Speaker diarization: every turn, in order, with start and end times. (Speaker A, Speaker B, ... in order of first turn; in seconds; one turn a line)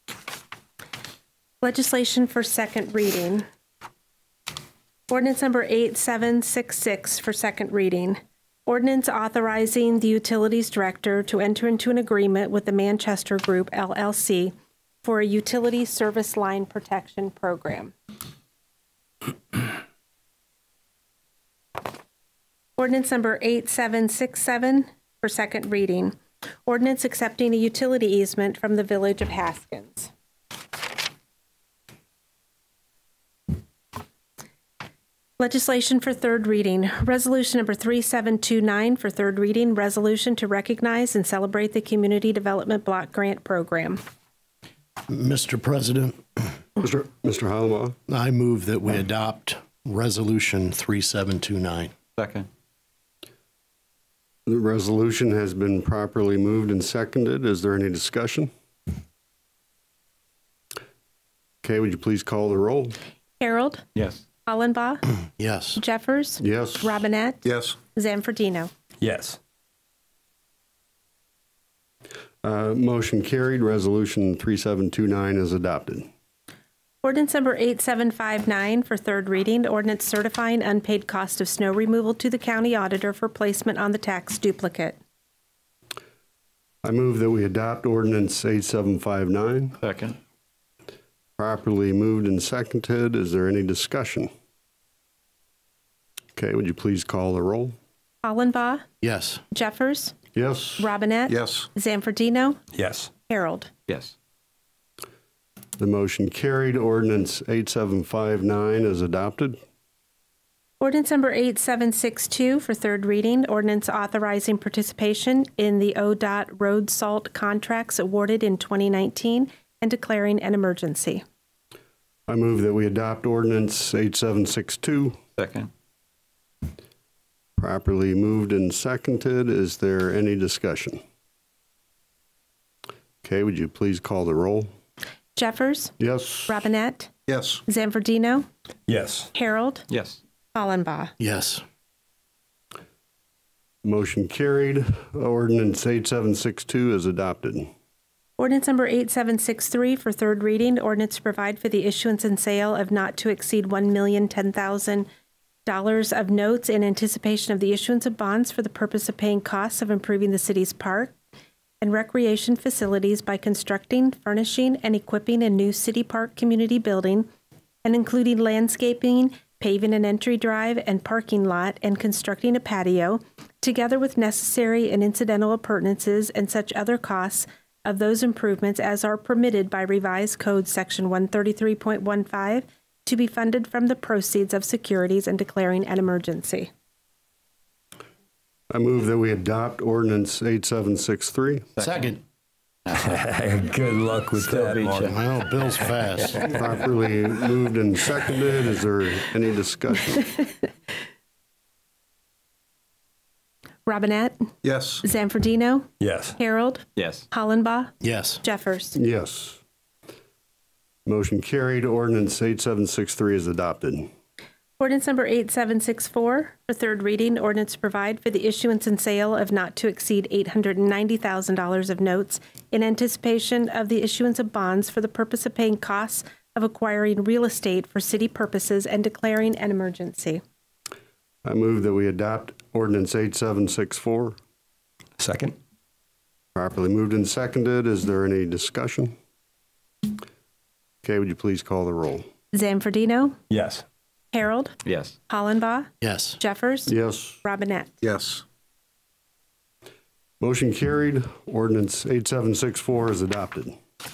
Speaker A: 1.6-3.4
Speaker A: 5.1-17.9
Speaker A: 22.8-30.1
Speaker A: 35.4-44.0
Speaker B: 45.1-46.5
Speaker C: 46.8-48.0
Speaker B: 48.1-51.9
Speaker D: 52.1-52.5
Speaker C: 54.5-58.5
Speaker C: 61.6-63.0
Speaker A: 63.4-63.9
Speaker D: 63.9-64.2
Speaker A: 64.5-65.0
Speaker B: 65.4-65.8
Speaker A: 65.8-68.7
Speaker C: 66.4-66.9
Speaker E: 69.0-69.4
Speaker C: 72.4-76.1
Speaker A: 77.0-85.0
Speaker C: 86.8-89.8
Speaker D: 89.8-90.2
Speaker C: 91.4-94.3
Speaker C: 96.3-97.8
Speaker A: 98.2-98.8
Speaker B: 99.0-99.4
Speaker A: 99.5-100.1
Speaker C: 100.3-100.9
Speaker A: 100.8-102.6
Speaker E: 102.7-103.1
Speaker A: 103.3-103.7
Speaker D: 103.9-104.1
Speaker C: 105.8-109.6
Speaker A: 110.8-121.2
Speaker C: 122.3-125.2
Speaker D: 125.4-125.7
Speaker C: 127.6-131.0
Speaker C: 133.2-134.7
Speaker A: 135.3-135.9
Speaker C: 136.0-136.5
Speaker A: 136.5-138.4
Speaker E: 138.9-139.3
Speaker A: 139.3-139.9
Speaker D: 139.9-140.2
Speaker A: 140.5-141.1
Speaker B: 141.2-141.6
Speaker C: 143.8-147.7
Speaker A: 148.4-155.1
Speaker A: 155.7-161.1
Speaker A: 161.8-167.3
Speaker A: 167.8-186.7
Speaker C: 188.7-191.7
Speaker D: 191.8-192.1
Speaker B: 191.8-192.2
Speaker E: 192.9-195.1
Speaker D: 194.3-195.1
Speaker B: 195.0-196.5
Speaker C: 196.4-200.3
Speaker A: 203.8-209.0
Speaker E: 206.0-206.3
Speaker D: 206.9-207.2
Speaker B: 208.0-208.4
Speaker C: 208.9-209.6
Speaker C: 211.1-214.1
Speaker A: 214.8-230.4
Speaker C: 231.4-234.3
Speaker E: 235.2-235.5
Speaker C: 236.5-239.1
Speaker C: 241.0-242.2
Speaker A: 242.5-243.3
Speaker E: 243.5-243.8
Speaker A: 244.3-247.9
Speaker D: 244.8-245.1
Speaker B: 246.0-246.4
Speaker C: 246.9-247.4
Speaker D: 248.0-248.4
Speaker C: 250.4-253.8